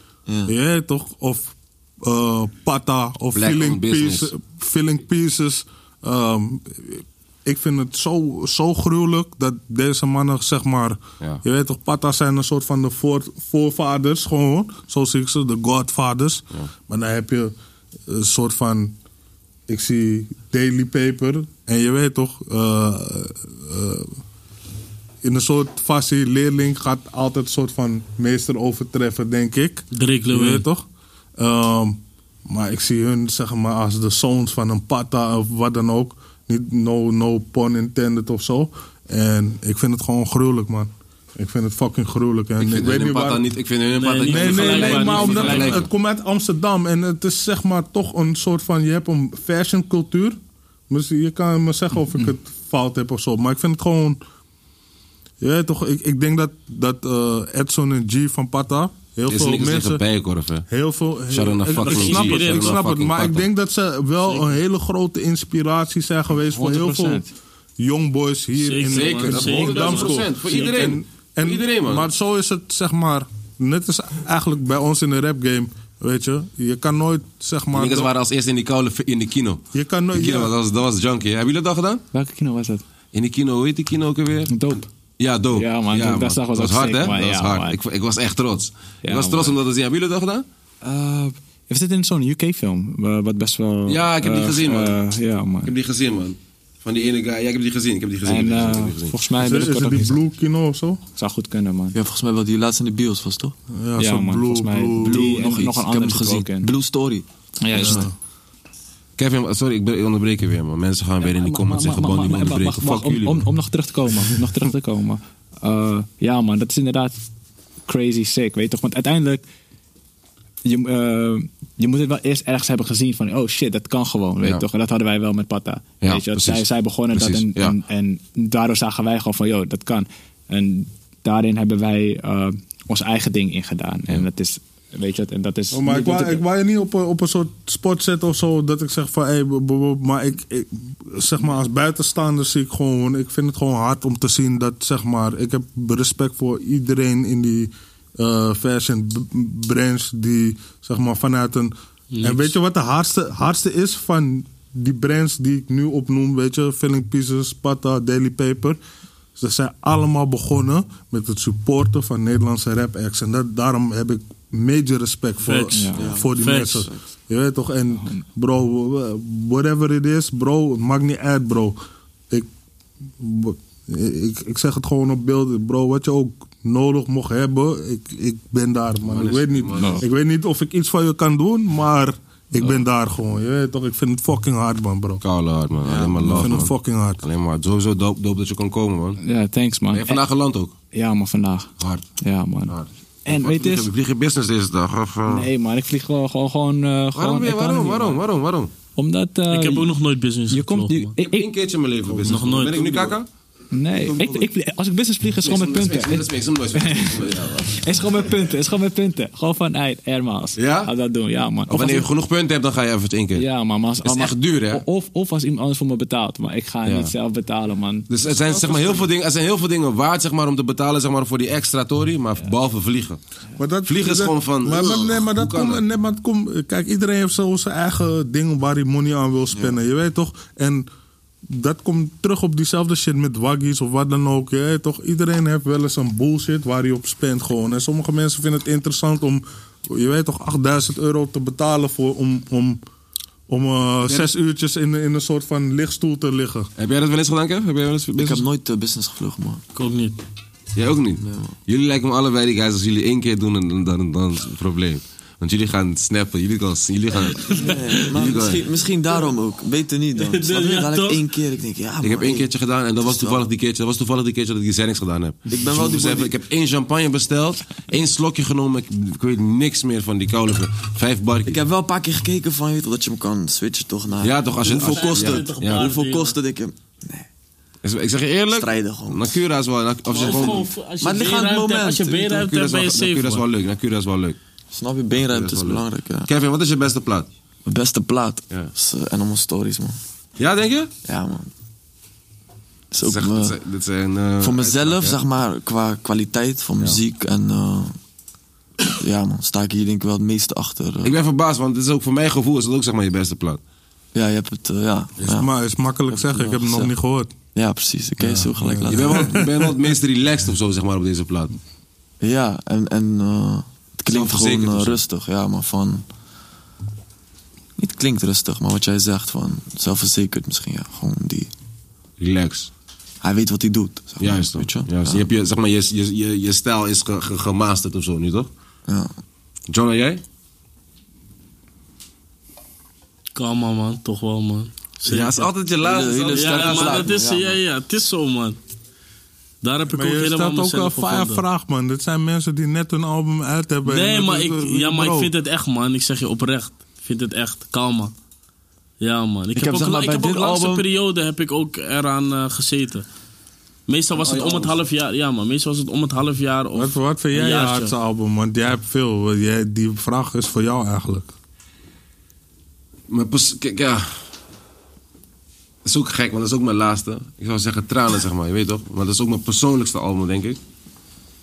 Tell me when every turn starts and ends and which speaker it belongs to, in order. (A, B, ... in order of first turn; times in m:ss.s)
0:00.3-0:00.5 A
0:00.4-0:17.5 B
0:03.3-0:04.3 C
0:18.1-0:19.0 B
0:19.7-0:24.2 B
0:25.2-0:30.8 B
0:29.9-0:30.6 D
0:31.4-0:43.4 B
0:42.6-0:45.9 C
0:44.0-0:45.8 D
0:44.3-0:50.4 B
0:50.9-0:54.2 B
0:55.4-1:00.0 B
0:59.3-1:00.7 C
1:00.7-1:07.2 B
1:01.3-1:03.5 C
1:01.8-1:02.8 D
1:06.5-1:07.3 E
1:07.8-1:18.1 B
1:08.6-1:10.9 D
1:08.9-1:12.1 C
1:17.7-1:22.0 C
1:19.7-1:20.5 B
1:22.1-1:22.8 E
1:23.1-1:24.5 C
1:24.5-1:24.8 E
1:25.2-1:30.4 C
1:25.5-1:27.8 E
1:29.0-1:29.5 E
1:30.8-1:35.7 E
1:33.9-1:35.0 C
1:35.6-1:39.1 C
1:38.2-1:40.2 E
1:39.4-1:41.0 B
1:41.2-1:41.9 E
1:41.9-1:43.5 A
1:43.7-1:45.4 B
1:44.0-1:46.7 E
1:45.0-1:48.1 A
1:47.6-1:48.0 E
1:47.7-1:48.1 B
1:49.2-1:53.4 C
1:51.2-1:57.2 E
1:57.9-1:59.4 E
2:00.6-2:16.4 E
2:06.0-2:07.7 C
2:15.7-2:38.8 B
2:32.1-2:32.5 D
2:39.4-2:51.8 B
2:45.4-2:46.8 D
2:45.7-2:46.0 E
2:46.0-2:46.9 A
2:53.2-3:05.2 B
2:59.0-3:00.0 C
2:59.8-3:00.0 E
3:05.2-3:09.2 C
3:05.8-3:06.4 A
3:06.3-3:07.2 B
3:09.2-3:10.2 E
3:09.9-3:10.7 C
3:10.9-3:11.7 E
3:11.8-3:12.0 C
3:12.2-3:12.7 E
3:12.7-3:15.5 C
3:13.2-3:13.9 E
3:15.3-3:18.2 E
3:17.1-3:18.7 C
3:19.0-3:19.9 E
3:19.5-3:21.1 D
3:20.5-3:21.5 E
3:21.2-3:23.3 C
3:22.2-3:23.2 D
3:23.7-3:32.1 E
3:24.1-3:24.4 A
3:25.4-3:27.8 C
3:30.6-3:30.9 C
3:31.7-3:33.4 C
3:33.4-3:38.1 E
3:34.0-3:34.8 C
3:36.8-3:37.1 C
3:38.1-3:43.2 C
3:43.6-3:50.9 B
3:43.8-3:45.8 C
3:51.4-4:02.8 B
4:03.5-4:06.7 B
4:06.8-4:08.4 C
4:08.1-4:09.6 A
4:09.7-4:10.2 D
4:10.8-4:18.6 C
4:11.2-4:11.5 A
4:17.4-4:18.0 D
4:17.5-4:22.5 A
4:20.2-4:21.2 D
4:22.0-4:31.6 C
4:23.0-4:23.4 A
4:25.5-4:26.3 A
4:31.5-4:37.3 A
4:34.2-4:35.9 C
4:34.7-4:36.4 D
4:37.8-4:40.7 C
4:38.5-4:39.3 A
4:40.1-4:43.4 D
4:40.2-4:42.4 A
4:42.3-4:44.4 C
4:44.7-4:46.3 A
4:45.2-4:47.3 C
4:47.6-4:50.0 A
4:50.4-4:50.9 C
4:51.0-4:51.5 A
4:52.9-4:53.6 A
4:53.0-4:55.2 C
4:54.4-4:58.0 A
4:59.0-5:01.1 A
5:01.0-5:03.6 C
5:04.1-5:05.5 A
5:05.2-5:07.3 B
5:06.1-5:06.9 A
5:07.5-5:09.4 A
5:08.2-5:09.7 B
5:08.9-5:11.5 C
5:12.2-5:16.0 A
5:14.1-5:15.0 C
5:17.8-5:21.5 A
5:22.2-5:22.7 C
5:23.2-5:25.3 A
5:24.2-5:28.5 C
5:28.9-5:29.1 A
5:29.7-5:30.2 C
5:33.3-5:35.5 D
5:35.0-5:37.1 C
5:35.8-5:37.6 A
5:36.3-5:38.6 D
5:39.6-5:41.4 D
5:39.9-5:45.3 B
5:43.8-5:48.1 D
5:49.0-5:53.0 D
5:49.5-5:50.9 A
5:53.9-5:57.9 D
5:54.2-5:54.7 C
5:56.7-6:01.3 B
6:03.1-6:04.1 C
6:05.8-6:10.6 C